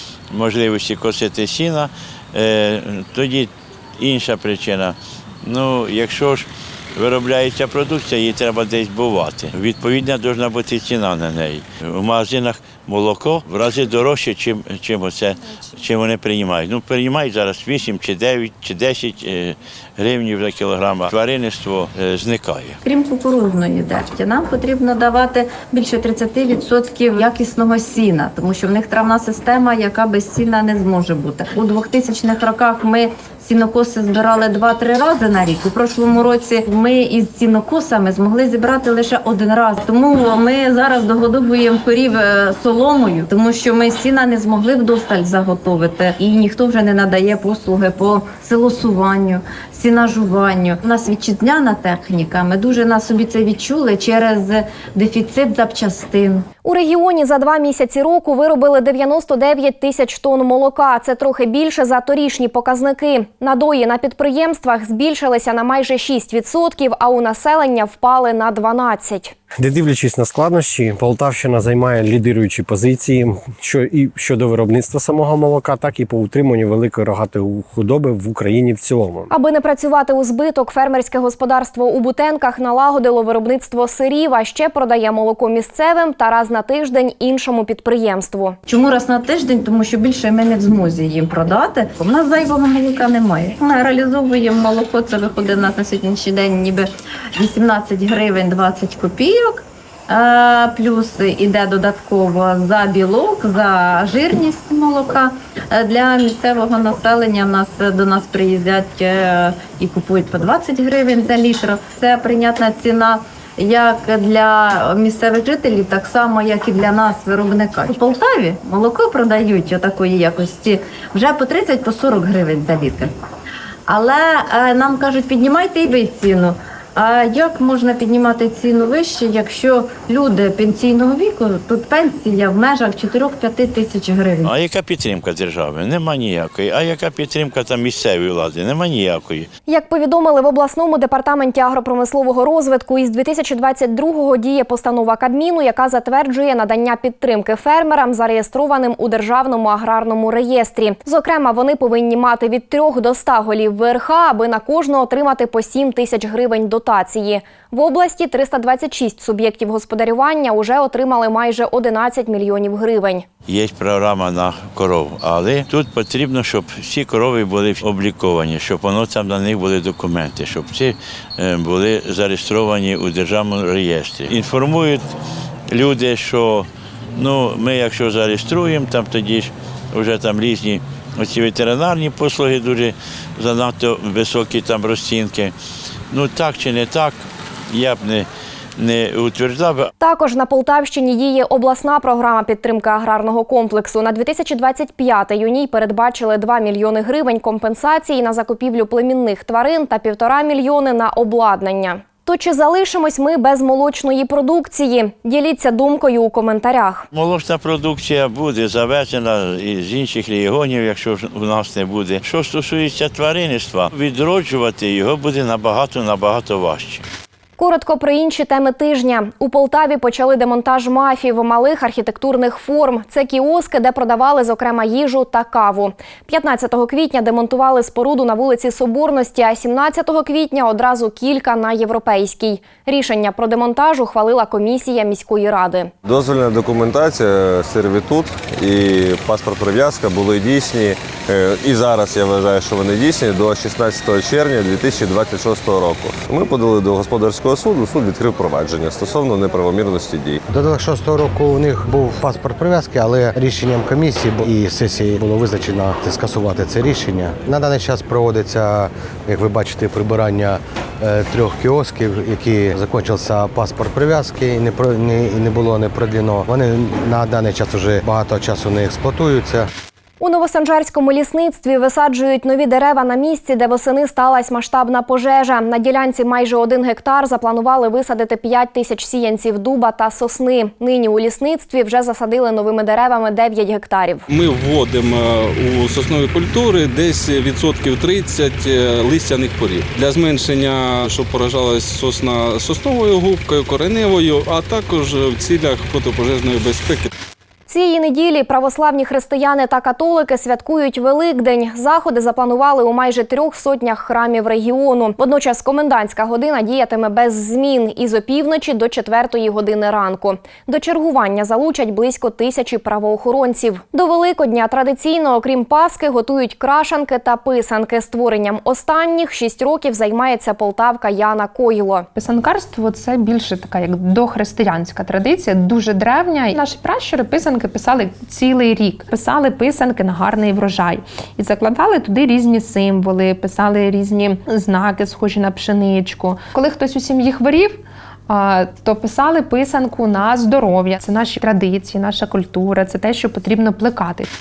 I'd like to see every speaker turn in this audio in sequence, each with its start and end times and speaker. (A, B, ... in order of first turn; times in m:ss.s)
0:00.3-0:22.8 A
0:22.8-0:56.4 B
0:56.6-1:09.4 C
1:09.6-1:19.3 D
1:19.3-1:28.6 C
1:28.7-2:03.1 B
2:03.9-2:14.5 B
2:14.4-2:19.5 A
2:19.7-2:43.3 C
2:43.5-2:55.1 A
2:55.7-3:05.5 A
3:06.1-3:07.2 A
3:07.7-3:08.3 A
3:08.8-3:09.9 A
3:10.0-3:27.0 C
3:27.1-3:37.0 A
3:37.6-3:55.9 C
3:56.0-4:10.4 E
4:10.5-4:29.6 F
4:30.2-4:44.2 C
4:44.3-4:57.1 G
4:57.7-5:22.1 C
5:22.2-5:44.3 H